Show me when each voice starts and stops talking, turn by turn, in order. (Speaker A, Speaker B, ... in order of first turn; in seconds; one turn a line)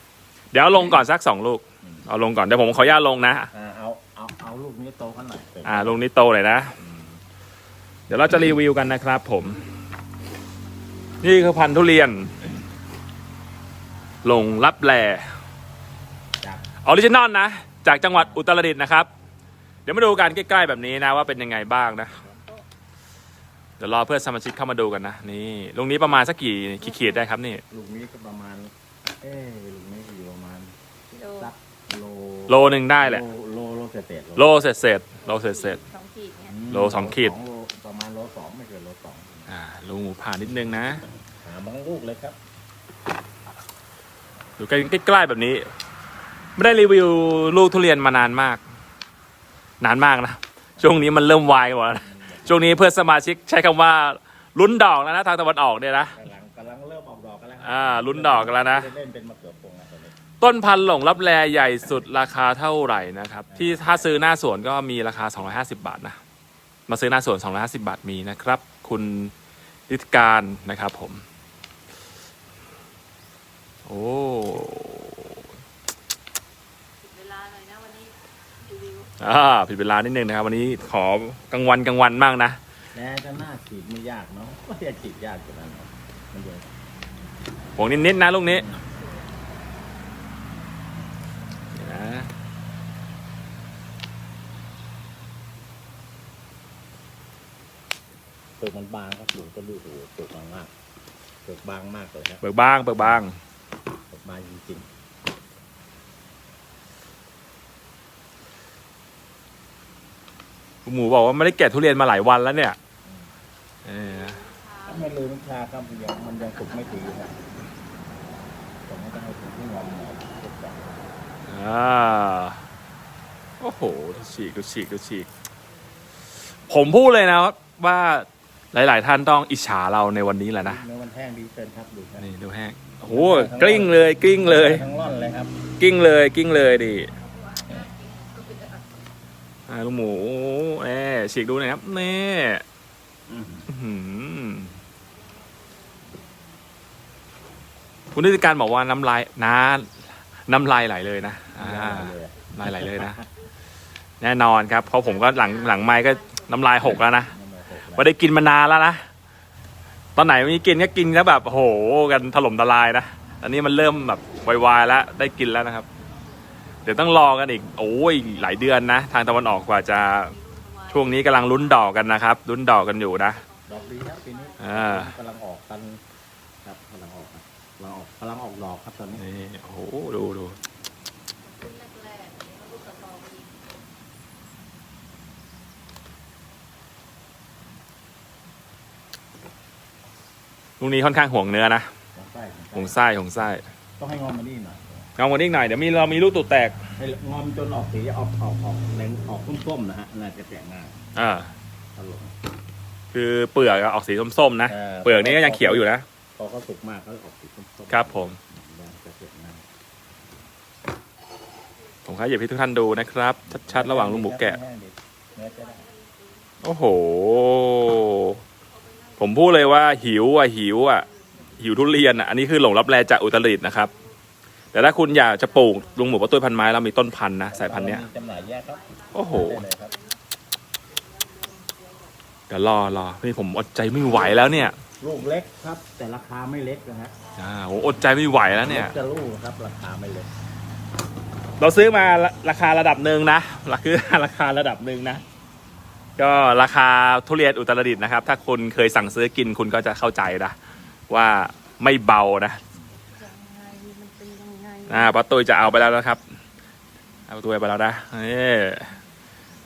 Speaker A: 0.5-3.5
Speaker B: 3.5-6.0
Speaker A: 5.7-6.8
Speaker A: 8.1-9.7
Speaker A: 11.2-12.4
Speaker A: 14.2-15.3
Speaker A: 16.8-19.1
Speaker A: 19.9-22.2
Speaker A: 23.8-27.6
Speaker B: 27.7-30.7
Speaker C: 31.1-31.5
Speaker B: 31.4-34.5
Speaker A: 32.5-33.2
Speaker A: 34.4-35.8
Speaker C: 35.3-36.5
Speaker B: 36.4-39.5
Speaker A: 36.7-37.3
Speaker A: 39.5-41.0
Speaker B: 41.4-42.4
Speaker A: 44.6-45.7
Speaker A: 46.6-48.6
Speaker A: 49.8-56.2
Speaker B: 52.1-52.7
Speaker B: 56.2-60.1
Speaker A: 57.6-58.9
Speaker A: 60.4-66.2
Speaker B: 63.5-64.2
Speaker A: 66.9-69.3
Speaker A: 69.9-71.2
Speaker A: 73.9-75.4
Speaker C: 77.0-79.1
Speaker A: 79.2-82.6
Speaker B: 83.0-86.7
Speaker A: 87.8-88.7
Speaker B: 88.5-88.8
Speaker A: 91.8-92.3
Speaker B: 98.6-100.7
Speaker B: 101.5-102.4
Speaker A: 102.4-103.4
Speaker B: 104.1-104.9
Speaker A: 110.8-112.8
Speaker A: 113.8-114.4
Speaker C: 114.3-115.0
Speaker B: 114.8-117.4
Speaker B: 118.9-121.0
Speaker A: 121.5-122.6
Speaker A: 123.6-125.3
Speaker A: 126.7-130.8
Speaker B: 130.6-132.3
Speaker A: 132.2-134.8
Speaker B: 133.0-135.6
Speaker A: 135.8-137.1
Speaker C: 137.2-138.9
Speaker A: 139.7-142.6
Speaker B: 143.3-143.7
Speaker A: 143.7-144.7
Speaker C: 145.4-146.4
Speaker A: 148.1-149.9
Speaker A: 150.5-153.2
Speaker B: 151.6-153.2
Speaker A: 154.2-157.3
Speaker C: 155.2-156.5
Speaker B: 157.0-158.1
Speaker A: 157.9-159.0
Speaker A: 160.2-165.9
Speaker A: 166.8-170.4
Speaker C: 170.4-171.4
Speaker A: 170.9-173.4
Speaker B: 173.7-176.0
Speaker A: 174.6-175.1
Speaker B: 176.6-179.2
Speaker A: 179.2-180.6
Speaker C: 181.5-183.5
Speaker A: 190.8-191.9
Speaker B: 192.2-193.0
Speaker A: 192.8-193.6
Speaker B: 194.0-195.1
Speaker A: 195.2-196.8
Speaker B: 197.0-201.1
Speaker A: 201.2-201.5
Speaker B: 202.0-202.3
Speaker A: 203.1-206.1
Speaker B: 204.7-209.6
Speaker A: 207.9-208.4
Speaker A: 212.1-214.6
Speaker B: 213.6-215.9
Speaker C: 215.8-216.4
Speaker A: 216.6-218.4
Speaker A: 219.2-223.9
Speaker A: 224.7-228.0
Speaker B: 227.5-230.0
Speaker C: 228.2-229.3
Speaker A: 229.1-229.7
Speaker C: 231.1-232.1
Speaker A: 232.5-234.8
Speaker B: 234.1-237.2
Speaker A: 237.3-238.9
Speaker B: 238.6-240.3
Speaker A: 241.6-245.2
Speaker A: 246.2-250.6
Speaker A: 251.1-252.6
Speaker C: 253.1-255.2
Speaker A: 254.9-256.2
Speaker A: 257.3-258.9